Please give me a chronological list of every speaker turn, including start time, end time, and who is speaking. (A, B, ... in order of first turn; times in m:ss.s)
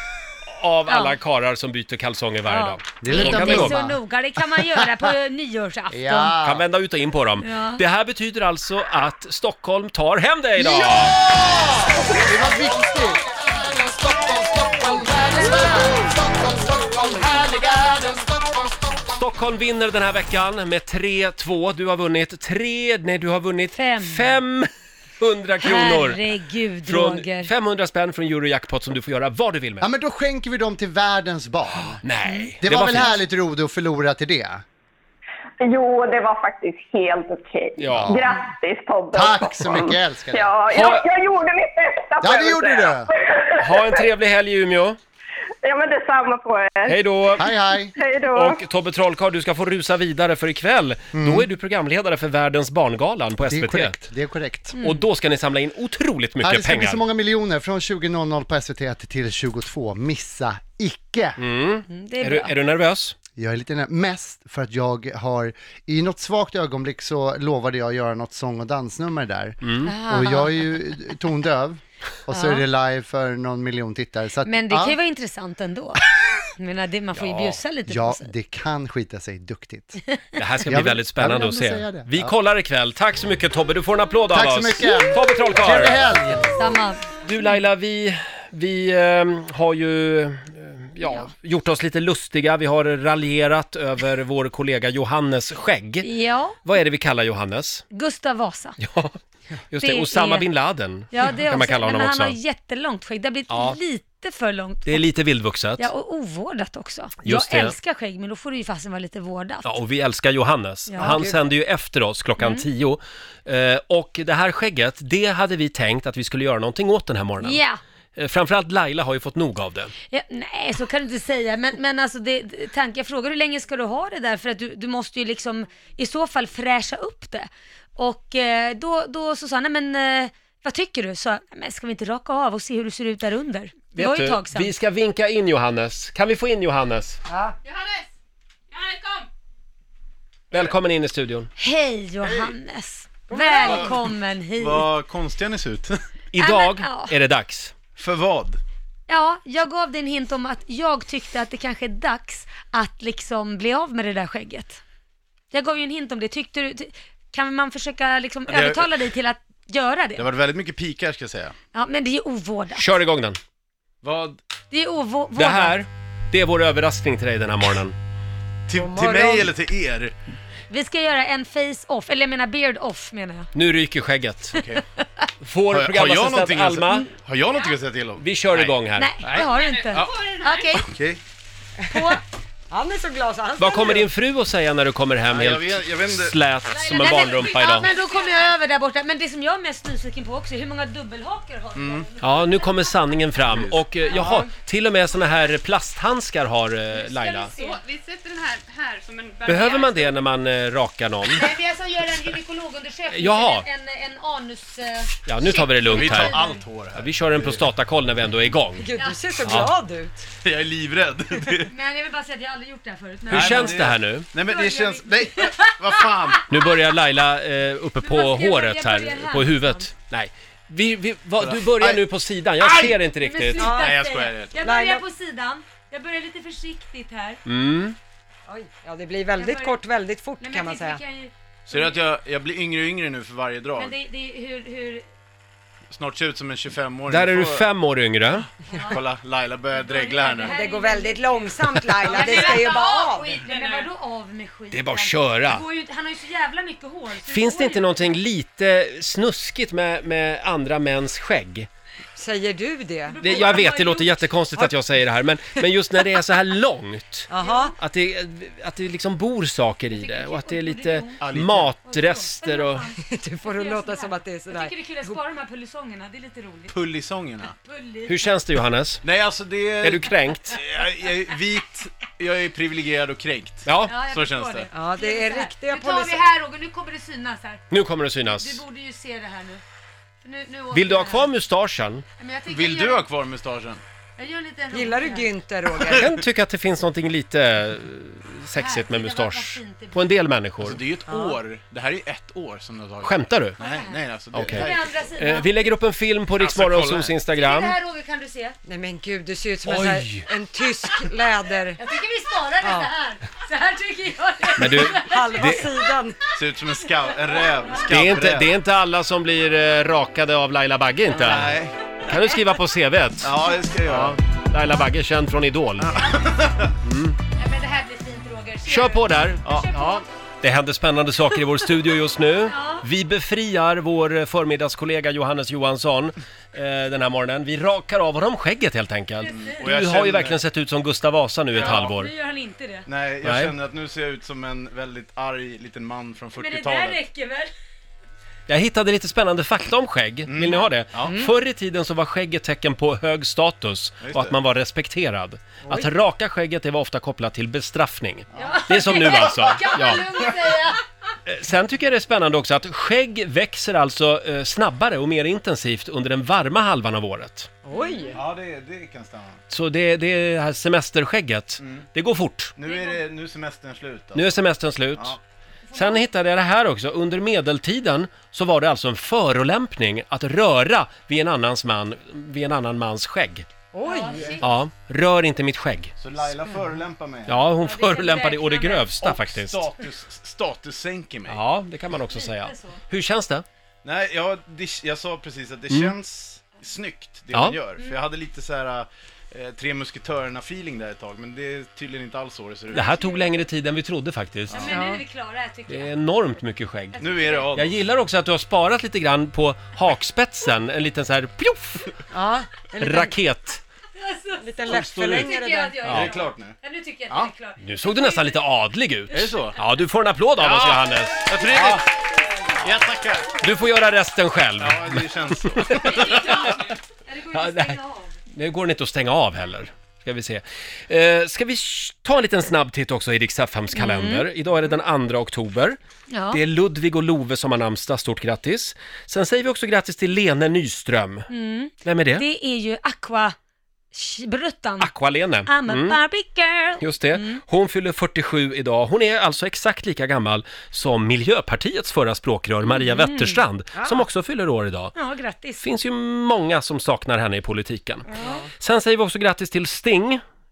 0:00.5-0:03.9 A
0:00.9-0:01.2 B
0:02.5-0:06.4 B
0:03.0-0:05.1 C
0:05.9-0:06.6 C
0:06.4-0:11.2 A
0:07.4-0:07.8 B
0:10.6-0:19.0 C
0:19.1-0:26.2 A
0:23.8-0:24.3 B
0:25.6-0:27.5 B
0:26.9-0:29.9 A
0:29.8-0:32.0 C
0:32.0-0:33.2 A
0:32.3-0:32.5 B
0:32.6-0:34.6 C
0:35.6-0:44.0 D
0:37.8-0:38.2 A
0:37.9-0:38.2 C
0:39.1-0:40.6 C
0:40.7-0:41.0 A
0:42.2-0:43.1 C
0:43.6-0:45.0 A
0:45.6-0:47.0 D
0:46.9-0:47.5 A
0:47.4-0:47.9 C
0:47.9-0:48.6 D
0:48.3-0:54.0 A
0:51.2-0:51.5 C
0:53.5-0:54.8 C
0:54.8-0:55.0 B
0:54.8-0:57.0 A
0:56.4-1:01.4 C
1:01.4-1:03.2 A
1:01.9-1:02.5 B
1:03.4-1:15.0 C
1:09.6-1:09.9 A
1:09.8-1:10.8 B
1:12.3-1:12.6 B
1:14.4-1:16.0 B
1:16.6-1:18.3 B
1:17.2-1:17.6 A
1:17.9-1:20.0 C
1:20.4-1:26.2 A
1:20.7-1:22.3 C
1:24.3-1:26.6 C
1:26.6-1:27.5 B
1:27.2-1:36.1 A
1:31.0-1:31.3 B
1:36.0-1:36.6 B
1:36.6-1:37.8 A
1:37.9-1:38.8 B
1:38.8-1:39.2 A
1:39.7-1:42.4 A
1:39.8-1:40.5 B
1:41.1-1:45.0 B
1:43.5-1:43.8 A
1:44.9-1:45.9 A
1:45.8-1:49.8 B
1:47.2-1:47.8 A
1:49.6-1:57.6 A
1:50.9-1:51.2 B
1:51.0-1:51.4 E
1:52.4-1:52.7 B
1:57.4-1:57.8 B
1:58.2-1:59.9 A
2:00.1-2:14.7 B
2:14.0-2:17.2 A
2:17.6-2:18.1 F
2:18.7-2:19.3 F
2:20.5-2:21.5 A
2:21.6-2:24.9 B
2:23.3-2:23.9 E
2:23.6-2:23.9 G
2:24.6-2:26.0 G
2:26.3-2:27.7 A
2:26.4-2:27.1 B
2:28.0-2:28.6 G
2:29.1-2:34.8 B
2:35.5-2:40.3 B
2:38.5-2:38.9 G
2:40.2-2:41.6 G
2:41.7-2:43.0 B
2:42.7-2:43.4 A
2:44.0-2:44.4 G
2:44.7-2:45.8 B
2:45.4-2:48.0 A
2:48.7-2:50.2 G
2:48.7-2:49.5 E
2:50.7-2:53.5 B
2:53.5-2:54.6 A
2:54.5-2:54.8 G
2:55.4-2:57.1 A
2:55.7-3:00.2 G
2:58.2-2:59.1 A
2:59.0-3:00.9 B
2:59.4-3:00.8 F
3:00.8-3:01.2 G
3:01.8-3:02.2 E
3:02.7-3:04.1 E
3:03.6-3:07.9 A
3:05.3-3:06.4 G
3:06.8-3:13.2 B
3:06.9-3:08.5 F
3:11.8-3:12.1 G
3:12.2-3:17.5 A
3:13.5-3:14.4 G
3:16.9-3:17.8 B
3:17.5-3:20.2 F
3:19.5-3:21.5 A
3:21.3-3:26.6 B
3:23.1-3:23.6 A
3:25.3-3:26.4 A
3:25.9-3:27.6 G
3:27.0-3:28.9 A
3:28.8-3:30.3 E
3:29.4-3:29.7 A
3:30.4-3:31.7 G
3:31.7-3:36.7 B
3:33.3-3:34.3 A
3:33.3-3:36.4 G
3:36.5-3:43.7 A
3:38.0-3:39.9 B
3:41.4-3:42.1 G
3:42.8-3:47.4 B
3:43.6-3:45.0 E
3:43.7-3:44.6 G
3:47.5-3:48.0 A
3:48.5-3:51.0 E
3:49.4-3:49.8 B
3:50.4-3:52.0 B
3:51.7-3:54.0 G
3:53.8-3:55.1 B
3:55.9-3:57.7 G
3:57.1-3:58.4 A
3:58.7-3:59.0 B
3:58.9-4:00.6 G
3:59.7-4:08.1 B
4:00.5-4:03.4 E
4:03.4-4:03.9 F
4:04.7-4:05.6 A
4:07.3-4:11.7 A
4:12.2-4:13.5 E
4:13.1-4:14.7 B
4:13.2-4:22.8 A
4:17.3-4:17.7 E
4:17.4-4:17.7 B
4:19.9-4:26.7 B
4:21.2-4:21.7 G
4:23.1-4:25.2 E
4:26.7-4:27.6 G
4:27.6-4:28.3 B
4:28.1-4:29.0 A
4:29.0-4:34.7 G
4:29.8-4:30.6 A
4:33.7-4:34.0 A
4:33.9-4:37.7 B
4:34.7-4:36.2 E
4:37.7-4:38.6 A
4:38.3-4:39.6 B
4:40.2-4:41.3 B
4:40.7-4:42.0 A
4:42.2-4:43.1 B
4:42.5-4:43.8 G
4:44.2-4:45.3 B
4:44.7-4:46.1 E
4:45.9-4:50.8 A
4:48.6-4:50.1 B
4:50.6-4:55.1 G
4:51.1-4:51.4 E
4:53.0-4:53.6 A
4:53.6-4:55.7 B
4:54.3-4:57.7 A
4:56.4-4:57.2 G
4:57.4-4:58.6 B
4:58.7-5:01.8 E
4:59.7-5:00.3 A
5:01.8-5:05.8 B
5:02.6-5:02.9 E
5:04.6-5:05.7 A
5:04.8-5:06.2 E
5:06.4-5:08.5 G
5:07.9-5:16.0 A
5:11.2-5:11.8 G
5:13.2-5:14.2 G
5:15.8-5:16.7 G
5:16.0-5:16.3 B
5:16.8-5:17.2 A
5:17.4-5:20.0 B
5:18.7-5:32.1 A
5:22.4-5:22.8 B
5:29.2-5:29.7 B
5:29.3-5:30.4 G
5:31.5-5:32.0 G
5:31.6-5:32.9 B
5:32.9-5:37.0 G
5:33.2-5:33.5 A
5:36.4-5:37.5 B
5:38.5-5:50.0 A
5:40.3-5:41.2 G
5:44.0-5:44.4 G
5:48.3-5:49.6 G
5:48.4-5:50.8 B
5:51.3-5:57.5 A
5:57.7-5:58.2 E
5:57.7-5:58.2 B
5:58.1-5:59.4 G
5:59.5-6:02.5 A
6:01.6-6:01.9 G
6:02.6-6:04.4 G
6:02.7-6:03.0 B
6:04.2-6:05.2 A
6:05.7-6:06.1 B
6:05.8-6:13.5 A
6:13.7-6:14.4 E
6:13.8-6:14.4 B
6:14.4-6:15.9 A
6:16.0-6:17.4 G
6:17.3-6:19.7 A
6:17.6-6:19.0 B
6:19.0-6:21.4 G
6:21.3-6:23.4 A
6:22.1-6:22.8 B
6:23.8-6:33.0 G
6:27.3-6:27.6 A
6:32.7-6:34.7 A
6:32.7-6:33.1 B
6:34.5-6:35.9 B
6:34.7-6:35.0 E
6:35.7-6:41.9 A
6:37.0-6:37.5 B
6:37.0-6:37.8 G
6:42.1-6:43.1 E
6:42.8-6:43.6 A
6:44.0-6:48.4 B
6:44.4-6:45.8 E
6:44.7-6:45.3 A
6:45.8-6:46.6 G
6:45.8-6:46.1 A
6:47.6-6:51.8 A
6:49.1-6:49.6 G
6:50.4-6:53.4 G
6:53.4-6:56.5 A
6:54.6-6:56.4 G
6:55.7-6:58.1 B
6:57.3-6:57.8 A
6:58.3-7:05.8 A
7:03.8-7:04.3 B
7:06.1-7:06.4 B
7:06.3-7:11.3 A
7:11.3-7:13.4 B
7:11.8-7:12.2 A
7:13.9-7:14.9 B
7:14.8-7:16.0 A
7:15.5-7:17.4 B
7:16.8-7:25.0 A
7:22.7-7:23.4 B
7:23.8-7:24.0 E
7:25.0-7:25.6 B
7:25.6-7:28.1 A
7:28.1-7:28.4 B
7:28.2-7:28.5 E
7:28.6-7:30.2 A